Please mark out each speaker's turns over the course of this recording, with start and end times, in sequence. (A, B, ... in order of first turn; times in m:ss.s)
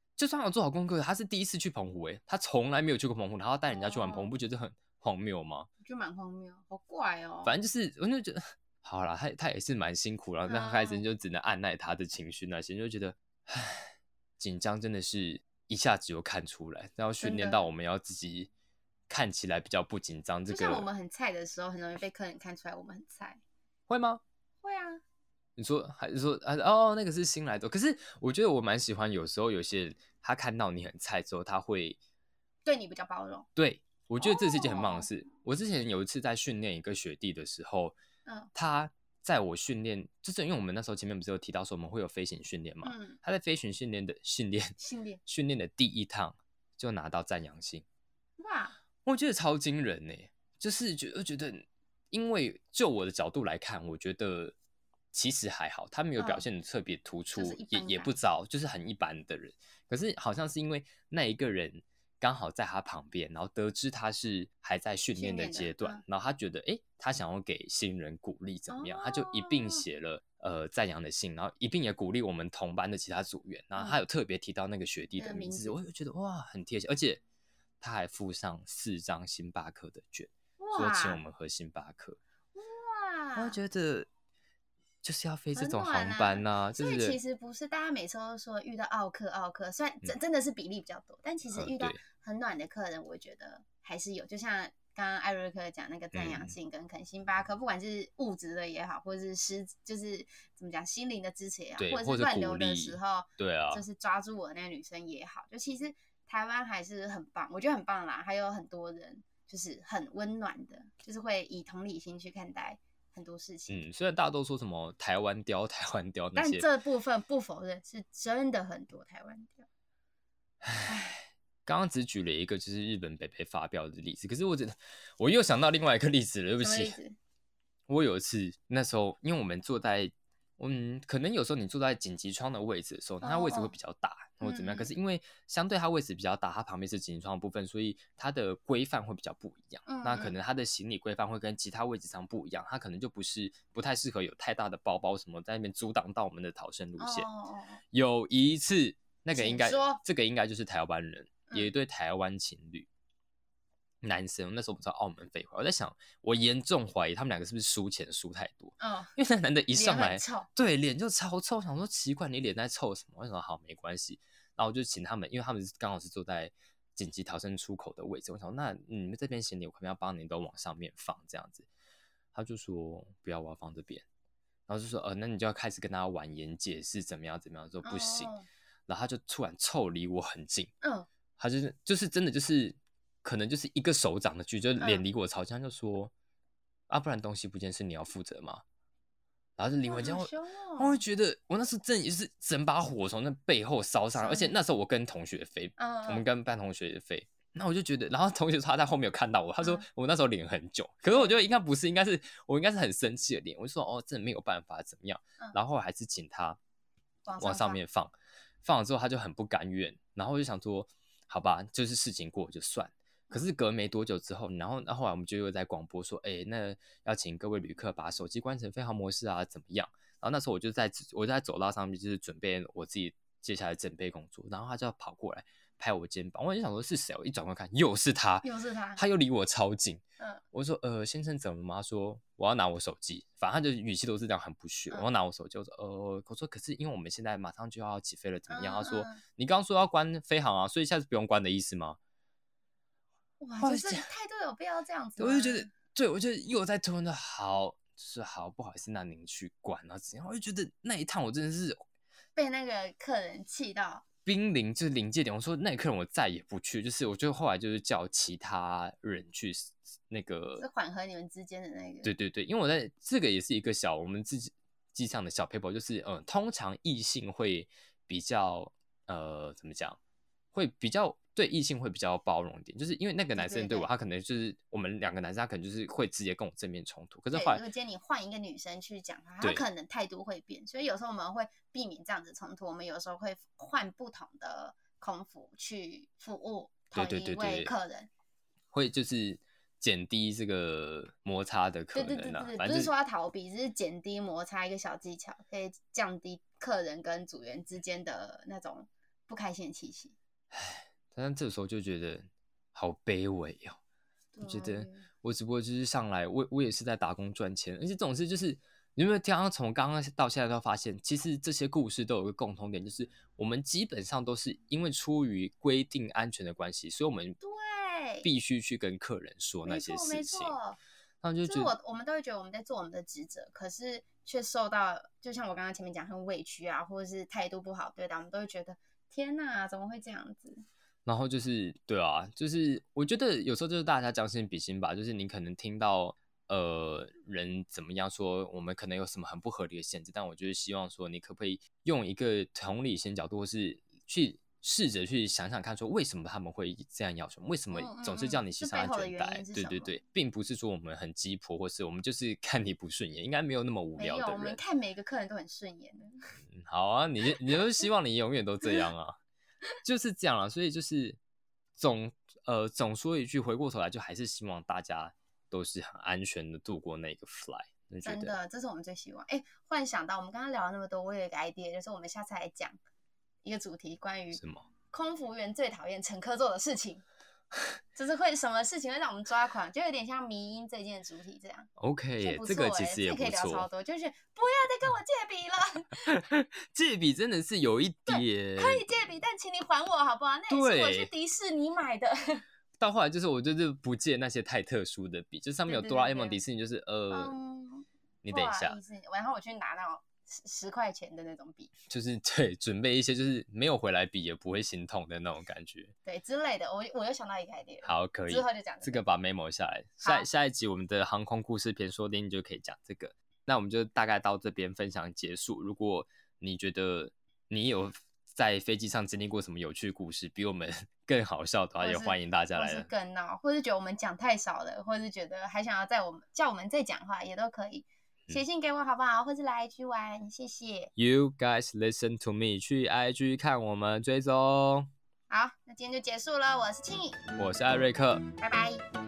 0:00.2-0:05.7 A
0:03.7-0:04.3 B
0:05.8-0:07.5 B
0:07.4-0:18.5 A
0:10.5-0:11.0 B
0:17.2-0:17.6 B
0:19.1-0:20.9 A
0:20.5-0:23.4 B
0:23.9-0:24.2 A
0:24.6-0:25.0 B
0:25.6-0:32.0 A
0:32.6-0:33.5 B
0:33.6-0:38.0 A
0:34.2-0:35.1 B
0:38.5-0:47.8 A
0:42.8-0:43.2 B
0:44.8-0:45.2 B
0:48.4-0:48.8 B
0:49.0-0:54.5 A
0:55.1-1:17.2 A
0:56.2-0:56.4 B
0:57.3-0:58.1 B
1:05.2-1:06.0 B
1:08.7-1:09.8 B
1:15.2-1:15.8 B
1:17.8-1:22.2 A
1:20.6-1:21.2 B
1:22.5-1:23.6 B
1:23.4-1:24.1 A
1:25.0-1:27.2 A
1:25.5-1:53.8 B
1:31.5-1:32.0 A
1:36.1-1:36.5 A
1:41.8-1:43.8 A
1:53.7-1:56.6 A
1:56.4-1:59.6 B
2:00.6-2:07.0 A
2:06.6-2:07.2 B
2:07.9-2:27.2 A
2:13.2-2:13.7 B
2:14.4-2:14.9 B
2:19.8-2:20.4 B
2:27.0-2:27.8 B
2:27.9-2:32.9 A
2:29.3-2:30.0 B
2:34.0-2:51.7 A
2:38.8-2:39.1 B
2:39.7-2:40.5 B
2:52.3-2:54.0 A
2:54.7-2:58.3 A
2:57.8-2:58.4 B
2:58.9-3:00.7 A
3:00.8-3:01.1 B
3:01.4-3:06.1 A
3:04.8-3:05.0 B
3:06.9-3:08.6 A
3:09.6-3:26.6 A
3:09.8-3:11.0 B
3:14.2-3:14.5 B
3:15.8-3:16.2 B
3:21.1-3:21.4 B
3:27.2-3:27.8 B
3:27.4-4:02.0 A
3:48.4-3:49.0 B
3:58.5-3:59.2 B
4:03.4-4:05.7 B
4:03.6-4:04.0 A
4:05.2-4:11.8 A
4:12.4-4:14.0 B
4:14.2-4:20.6 A
4:20.6-4:22.1 B
4:22.0-4:30.0 A
4:30.5-4:37.6 A
4:33.4-4:33.9 B
4:37.3-4:48.1 B
4:46.9-4:47.7 A
4:48.7-4:52.9 A
4:51.9-5:00.1 B
5:00.5-5:03.8 A
5:04.3-5:05.1 B
5:04.4-5:17.4 A
5:17.4-5:18.3 B
5:18.2-5:20.6 A
5:19.6-5:20.8 B
5:21.2-5:21.7 A
5:21.4-5:30.6 B
5:31.0-5:54.6 A
5:47.7-5:49.9 B
5:54.0-5:56.3 B
5:56.5-5:59.2 A
5:59.8-6:01.2 A
6:01.8-6:08.3 A
6:08.0-6:12.8 B
6:13.4-6:17.0 B
6:14.3-6:14.7 A
6:17.9-6:21.7 B
6:21.8-6:23.7 A
6:22.2-6:26.1 B
6:26.1-6:29.0 A
6:28.1-6:32.4 B
6:30.5-6:31.1 A
6:32.8-6:37.3 A
6:35.7-6:36.4 B
6:37.1-6:41.7 B
6:38.2-6:38.8 A
6:41.9-6:45.9 A
6:46.0-6:49.0 B
6:47.8-7:02.9 A
6:50.0-6:50.3 B
7:01.8-7:10.9 B
7:11.0-7:14.9 A
7:15.3-7:17.2 B
7:17.4-7:18.2 A
7:18.4-7:18.8 B